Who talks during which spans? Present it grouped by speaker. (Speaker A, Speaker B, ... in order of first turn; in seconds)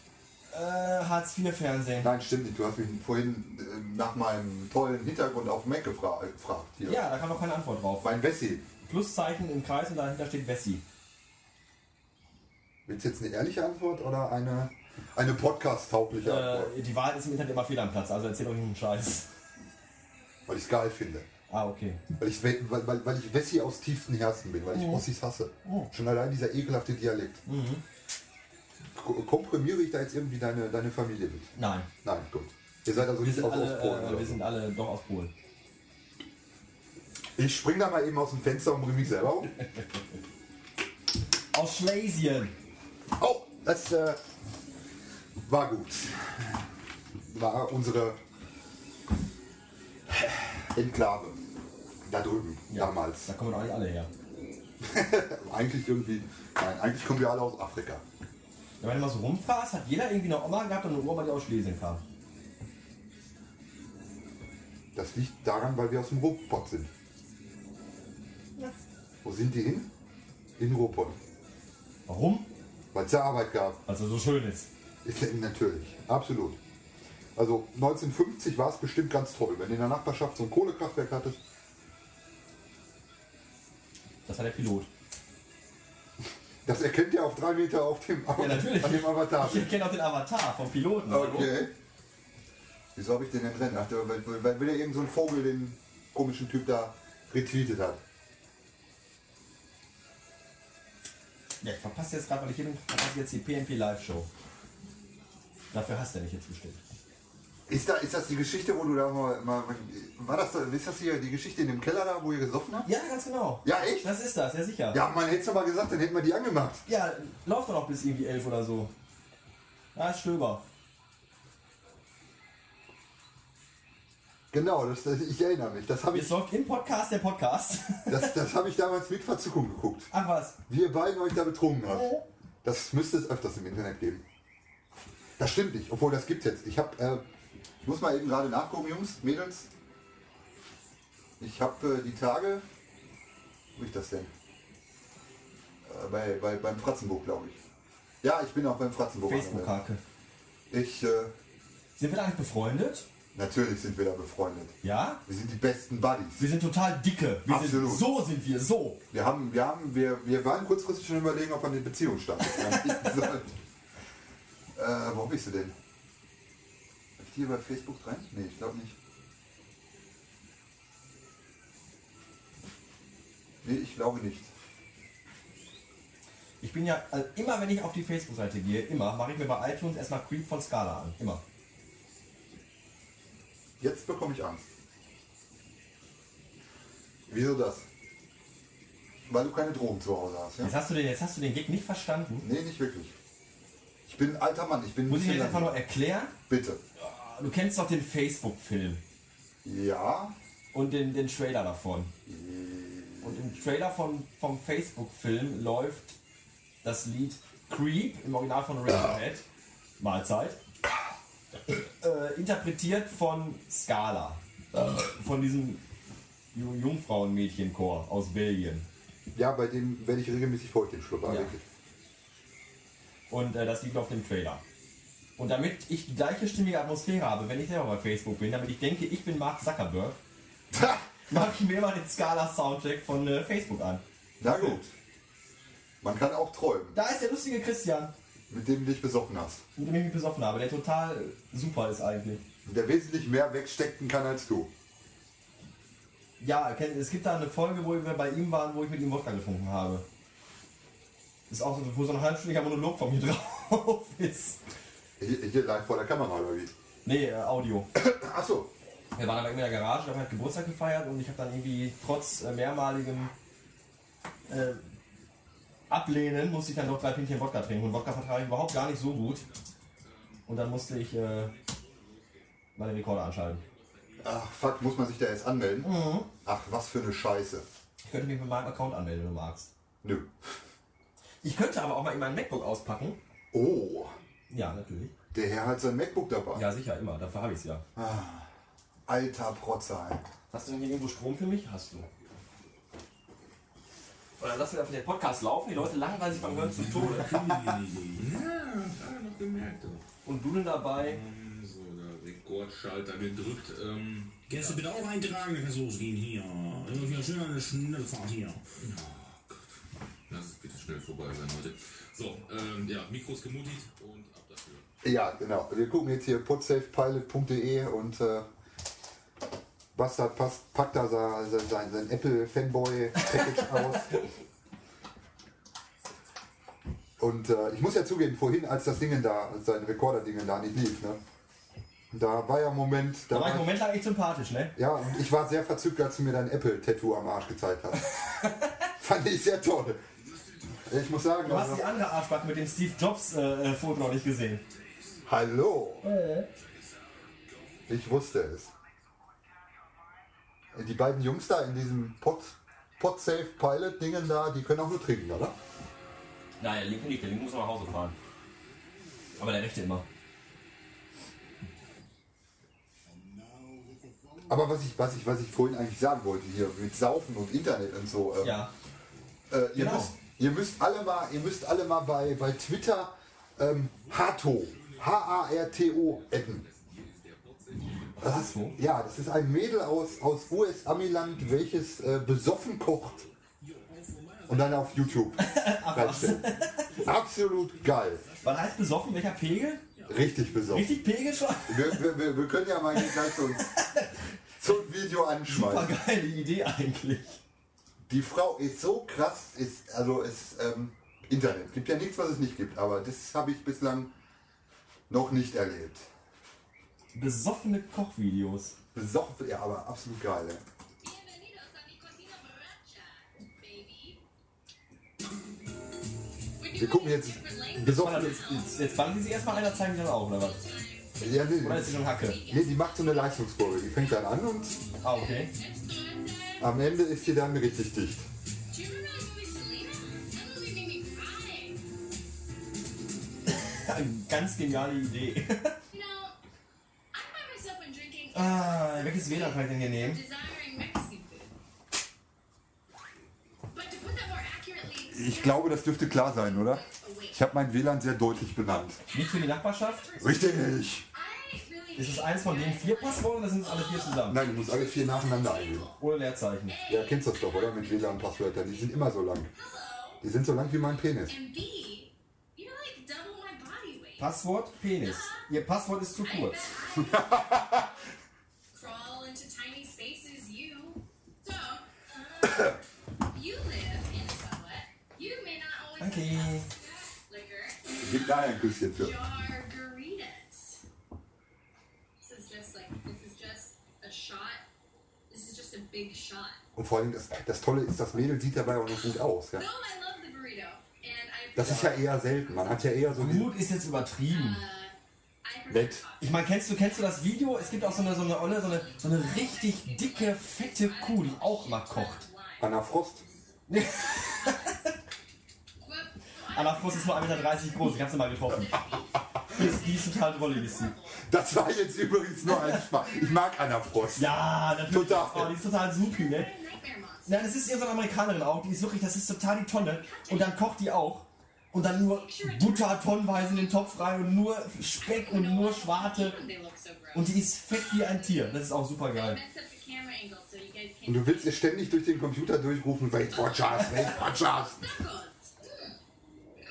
Speaker A: 0.5-2.1, 6.8-8.2, 8.8-10.8, 16.2-19.2, 21.5-22.0, 24.7-25.1, 25.6-25.9, 27.4-27.8, 31.6-31.9, 33.1-35.3, 41.5-42.5, 52.7-54.1, 58.8-62.0, 72.1-72.5, 73.9-74.7, 84.2-84.9, 88.4-91.6, 101.6-104.3, 105.7-106.8, 112.8-115.0, 116.9-118.9, 119.9-120.6, 126.1-128.3, 130.1-130.6, 131.9-132.2, 149.2-150.0, 152.0-153.1, 154.8-155.2, 156.4-159.0, 162.5-163.1, 176.6-181.4, 190.6-192.5, 195.1-196.3, 197.0-199.0, 200.7-202.1, 203.2-206.1, 206.8-209.4, 210.0-210.6, 211.7-215.8, 216.5-218.9, 221.2-221.5, 223.3-224.6, 225.4-230.2, 231.3-234.8, 236.9-238.1, 239.8-242.4, 246.4-250.1, 251.5-254.6, 257.0-257.9, 259.1-263.3, 264.5-264.8, 265.9-269.4, 270.4-271.5, 272.7-273.6, 275.8-276.3, 278.0-279.7, 281.4-283.2, 284.5-285.1, 286.5-287.8, 290.5-292.1, 294.4-297.3, 300.2-301.2, 333.3-334.7, 338.2-338.9, 341.4-344.6, 346.0-346.5, 356.6-358.1, 359.4-360.1, 368.4-368.7, 369.7-370.1, 378.2-378.8, 385.4-386.9, 388.4-389.8, 390.7-392.1, 392.9-394.2, 395.5-397.4, 407.1-408.8, 417.9-420.6, 421.6-422.4, 425.0-425.5, 433.6-435.8, 438.3-440.2, 449.1-450.0, 452.0-454.4, 456.0-456.8, 464.2-466.7, 476.0-476.7, 493.1-494.6, 496.2-502.2, 503.7-504.8, 506.5-508.8, 509.5-510.9, 512.5-512.8, 514.1-516.5, 517.2-526.4, 527.1-529.4
Speaker B: 2.0-7.0, 8.0-8.6, 12.9-16.7, 20.5-21.3, 22.2-27.4, 28.9-31.5, 32.0-34.4, 37.4-39.5, 43.2-44.2, 45.4-46.6, 47.2-48.2, 50.6-51.4, 52.0-53.3, 54.8-58.0, 64.9-66.9, 69.2-69.9, 70.6-71.2, 72.9-73.8, 75.0-76.6, 77.4-81.4, 86.6-89.7, 91.1-91.7, 92.9-98.0, 107.7-112.9, 113.6-114.1, 114.9-116.8, 124.5-126.4, 128.1-130.1, 130.7-134.2, 135.4-137.2, 137.8-139.7, 141.4-142.6, 143.7-144.3, 145.8-147.6, 148.2-149.8, 150.7-151.3, 153.3-156.5, 157.4-158.1, 159.1-163.5, 164.7-165.8, 167.2-168.9, 173.6-174.5, 183.8-184.7, 187.3-187.9, 189.3-190.7, 192.4-193.1, 194.1-195.8, 196.5-196.8, 199.6-200.4, 202.3-203.5, 219.3-221.6, 230.7-231.0, 234.4-234.9, 236.0-237.0, 238.5-239.6, 242.7-244.7, 255.2-256.7, 257.9-258.7, 274.2-277.6, 280.0-280.3, 283.5-284.1, 285.3-286.7, 287.9-288.5, 289.1-290.2, 315.0-318.5, 319.9-324.2, 327.2-331.2, 332.1-333.8, 334.8-338.2, 339.0-340.0, 340.8-341.9, 345.2-346.1, 347.9-348.7, 350.7-355.6, 364.5-368.7, 369.5-376.6, 378.2-383.2, 384.5-386.4, 387.0-388.2, 390.1-391.0, 391.7-393.8, 394.6-395.9, 398.1-404.1, 405.1-406.0, 408.9-410.6, 416.7-418.7, 421.2-424.8, 426.6-428.3, 445.1-449.0, 450.2-451.1, 454.3-455.9, 456.9-459.5, 460.2-461.4, 467.0-467.9, 478.0-479.2, 486.8-489.6, 491.5-493.5, 495.7-496.0, 502.6-503.2, 511.2-515.6, 531.0-535.0
Speaker C: 269.2-274.6, 298.1-300.0, 301.0-304.9, 306.9-307.4, 308.8-309.7, 310.3-314.9, 344.7-345.2, 346.5-347.9, 373.9-382.3, 382.9-383.4
Speaker D: 296.7-298.3, 304.5-308.7, 363.1-364.6, 383.6-389.2, 389.9-391.6
Speaker E: 411.0-414.2, 416.6-427.4, 428.7-431.8, 435.9-436.4, 437.1-441.6, 443.7-447.5, 449.1-456.0, 456.6-460.2, 461.2-464.3, 465.0-465.5, 466.1-467.9, 468.7-480.8, 482.2-484.6, 485.3-486.6, 489.5-493.0, 494.2-502.8, 503.7-504.9, 505.8-511.3, 512.7-513.9, 515.8-517.5, 519.7-520.7, 521.7-524.1, 524.9-531.8, 533.3-536.0